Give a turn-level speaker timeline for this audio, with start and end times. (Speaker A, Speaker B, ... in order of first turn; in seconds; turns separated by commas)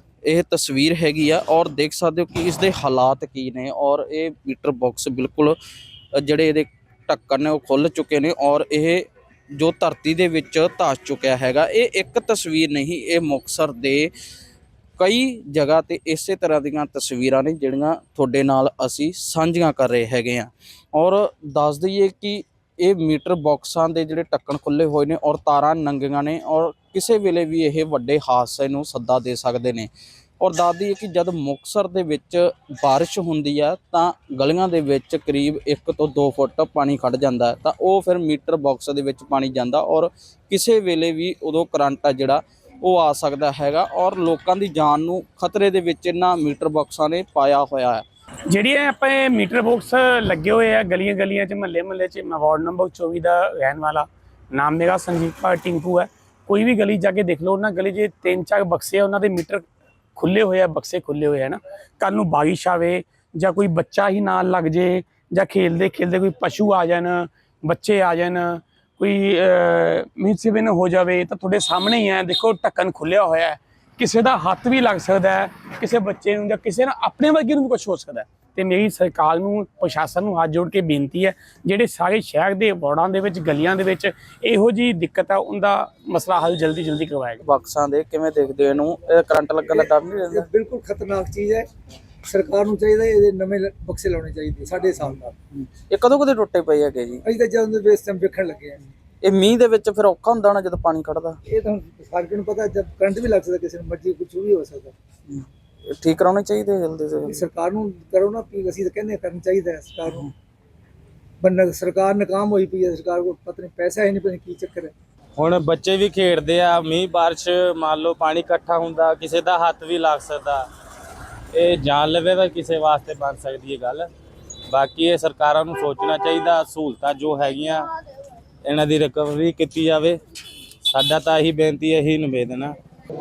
Speaker A: 0.2-5.5, Speaker A: 6.1-14.1, Speaker A: 15.0-29.9, Speaker A: 30.4-48.0, Speaker B: 48.5-59.6, Speaker B: 60.1-87.4, Speaker A: 87.4-90.5, Speaker C: 89.7-91.7, Speaker C: 92.2-95.3, Speaker A: 95.5-97.2, Speaker C: 97.2-98.8, Speaker A: 99.2-101.4, Speaker C: 101.5-104.9, Speaker A: 105.3-107.4, Speaker C: 107.2-110.3, Speaker C: 111.4-114.9, Speaker D: 115.4-120.7, Speaker D: 121.5-124.1, Speaker D: 124.7-127.9, Speaker D: 128.6-130.2, Speaker D: 130.8-132.8